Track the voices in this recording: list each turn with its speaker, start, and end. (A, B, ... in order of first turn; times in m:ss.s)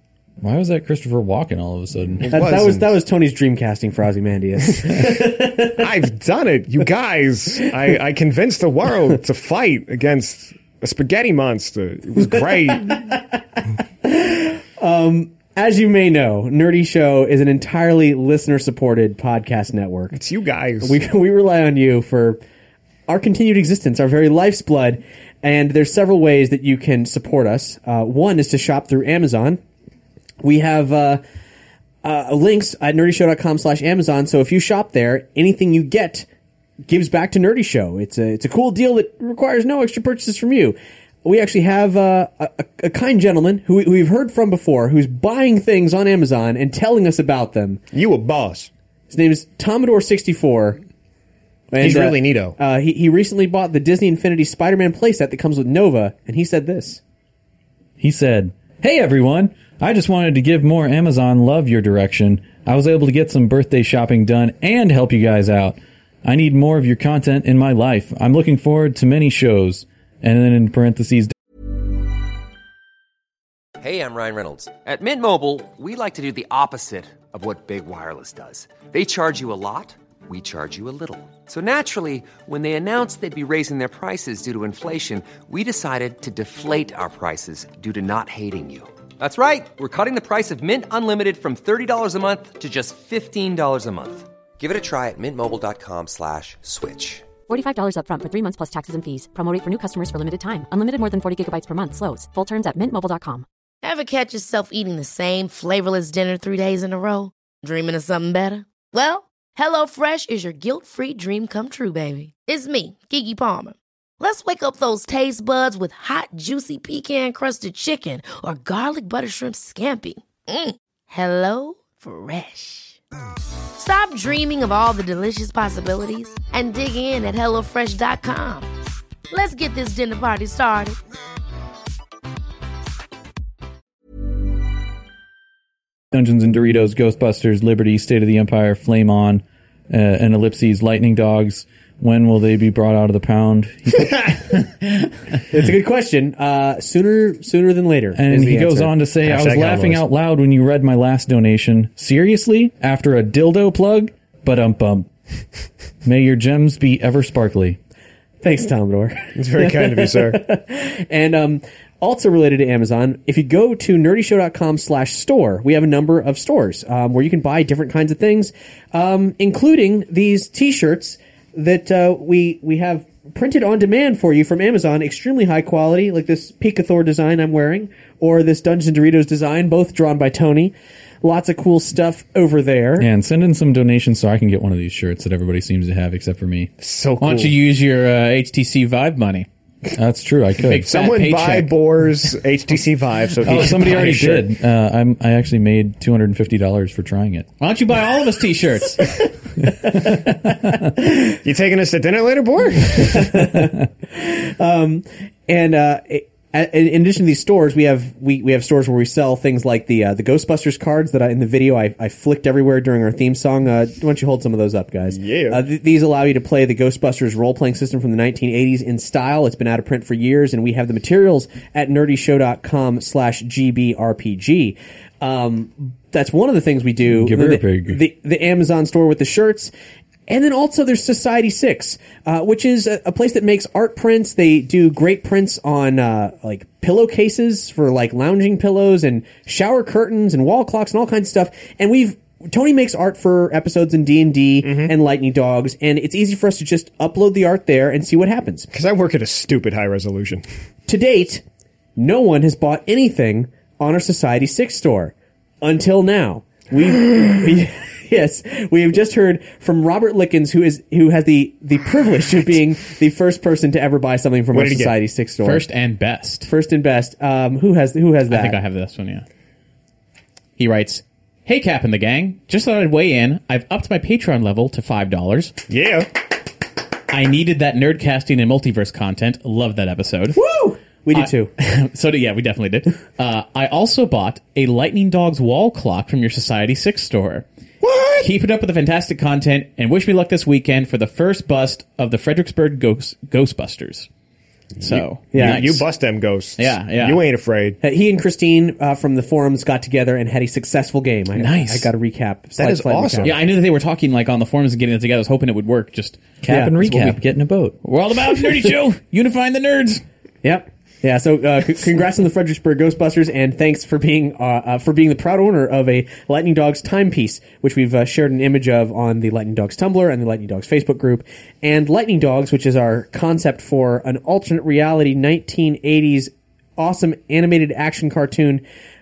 0:00.4-0:02.4 A
0:02.2-0:02.9 B
0:02.3-0:05.8 C
0:05.6-0:13.1 B
0:12.7-0:13.3 C
0:14.0-0:20.2 C
0:20.1-0:21.0 B
0:20.8-0:22.4 C
0:23.1-0:29.6 C
0:30.4-0:31.2 C
0:32.0-0:36.3 C
0:36.9-0:47.8 C
0:47.9-0:48.7 B
0:49.1-0:50.8 C
0:51.7-0:57.0 C
0:51.8-0:52.6 B
0:58.0-1:11.3 A
1:13.8-1:37.3 D
1:37.5-1:43.4 E
1:43.8-2:03.0 F
2:03.8-2:08.7 F
2:09.3-2:11.0 F
2:16.1-2:24.4 A
2:25.5-2:28.9 C
2:28.1-2:35.1 A
2:29.2-2:30.0 B
2:36.0-2:37.8 A
2:38.4-3:03.1 C
2:39.4-2:40.4 B
3:03.0-3:06.7 A
3:06.8-3:07.6 B
3:07.2-3:09.5 G
3:09.9-3:10.9 A
3:10.6-3:11.8 G
3:10.9-3:14.5 B
3:13.4-3:17.5 A
3:13.5-3:14.1 G
3:17.6-3:19.1 G
3:21.4-3:23.4 B
3:22.9-3:49.7 C
3:35.1-3:35.6 B
3:47.0-3:48.0 A
3:50.3-4:08.7 C
4:04.6-4:04.9 B
4:08.7-4:10.4 B
4:10.9-4:11.4 C
4:12.0-4:25.6 C
4:24.5-4:24.9 B
4:25.4-4:26.5 G
4:26.4-4:28.6 C
4:28.3-4:29.3 G
4:30.6-4:35.6 G
4:35.7-4:36.1 B
4:37.1-4:40.4 G
4:40.3-4:41.5 C
4:41.1-4:47.4 G
4:47.8-4:48.3 B
4:48.2-4:54.1 G
4:54.8-4:55.9 G
4:54.8-4:57.8 B
4:55.3-4:55.6 C
4:56.6-4:57.2 G
4:57.8-5:03.3 C
5:01.3-5:01.9 G
5:02.6-5:03.4 B
5:03.2-5:06.2 G
5:06.4-5:07.8 A
5:06.4-5:06.8 C
5:06.8-5:07.2 G
5:07.8-5:10.0 G
5:10.4-5:28.6 C